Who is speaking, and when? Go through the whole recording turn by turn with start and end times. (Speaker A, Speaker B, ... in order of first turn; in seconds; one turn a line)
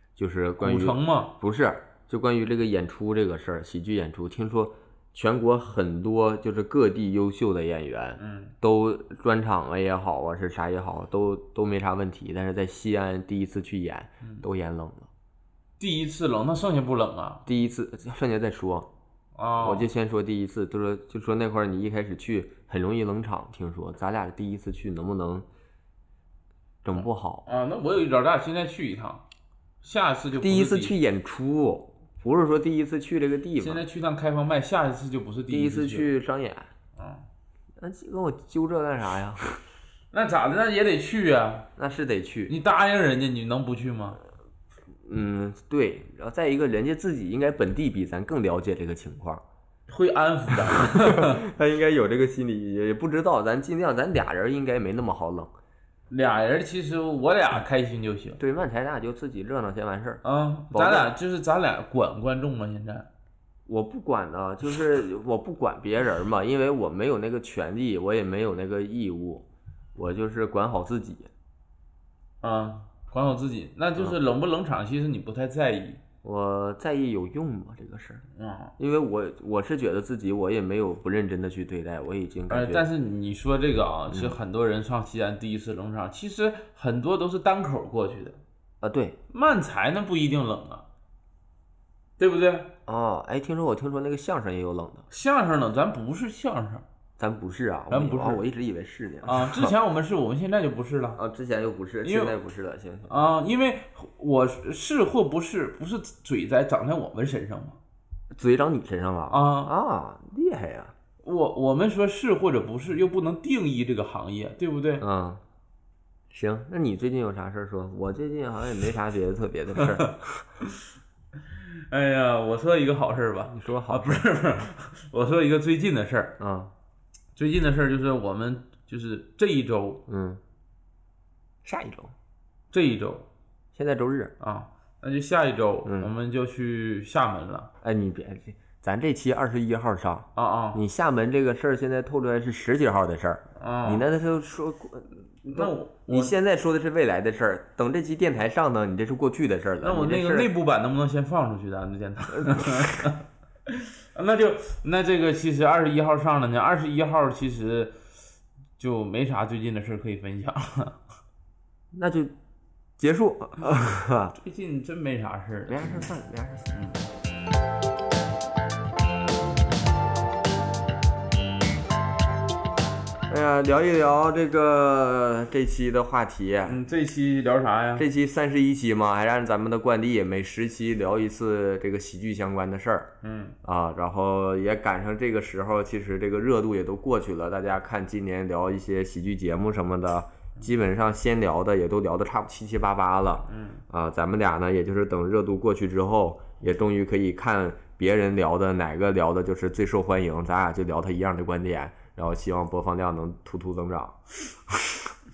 Speaker A: 0.2-15.1
Speaker B: 0.6-1.3
Speaker B: 8.2-8.5
Speaker B: 15.8-17.4
Speaker A: 17.5-18.9
Speaker B: 19.4-19.9
Speaker A: 19.6-25.5
Speaker A: 26.8-27.5
Speaker B: 27.5-29.2
Speaker B: 29.8-31.0
Speaker A: 30.4-33.8
Speaker B: 33.6-36.1
Speaker A: 35.5-36.7
Speaker B: 37.0-37.2
Speaker A: 37.8-39.5
Speaker B: 40.1-41.7
Speaker A: 41.8-42.5
Speaker B: 42.5-44.2
Speaker A: 45.0-49.4
Speaker B: 49.9-51.4
Speaker A: 50.7-55.5
Speaker B: 56.1-58.4
Speaker A: 58.4-61.1
Speaker B: 60.2-63.1
Speaker A: 63.7-71.3
Speaker B: 72.4-76.0
Speaker A: 76.2-78.2
Speaker B: 78.3-78.7
Speaker A: 78.8-82.9
Speaker B: 82.5-88.4
Speaker A: 84.1-84.4
Speaker A: 88.8-89.2
Speaker B: 89.3-90.8
Speaker B: 92.2-92.7
Speaker A: 92.9-95.1
Speaker B: 95.1-96.8
Speaker A: 97.2-99.7
Speaker B: 97.9-98.4
Speaker B: 99.2-101.2
Speaker A: 101.2-103.1
Speaker B: 102.0-102.4
Speaker B: 103.1-107.8
Speaker A: 108.3-110.9
Speaker B: 109.3-109.7
Speaker B: 111.2-115.0
Speaker A: 115.0-115.4
Speaker A: 116.3-120.4
Speaker B: 119.8-120.1
Speaker B: 121.5-126.4
Speaker A: 123.5-124.2
Speaker A: 126.4-126.7
Speaker B: 127.4-130.0
Speaker A: 130.1-130.4
Speaker A: 131.6-132.1
Speaker B: 132.7-133.3
Speaker A: 133.7-134.3
Speaker B: 134.4-137.7
Speaker A: 135.8-136.1
Speaker A: 137.8-150.5
Speaker B: 140.4-140.8
Speaker B: 143.6-144.1
Speaker B: 145.5-146.3
Speaker B: 149.8-157.9
Speaker A: 152.4-152.8
Speaker B: 158.8-161.0
Speaker A: 161.9-162.3
Speaker A: 163.0-164.3
Speaker B: 164.3-166.1
Speaker A: 165.7-166.7
Speaker B: 166.7-167.0
Speaker A: 173.3-176.8
Speaker B: 176.7-178.1
Speaker A: 178.0-183.1
Speaker B: 183.2-183.6
Speaker A: 183.6-205.1
Speaker B: 193.5-193.8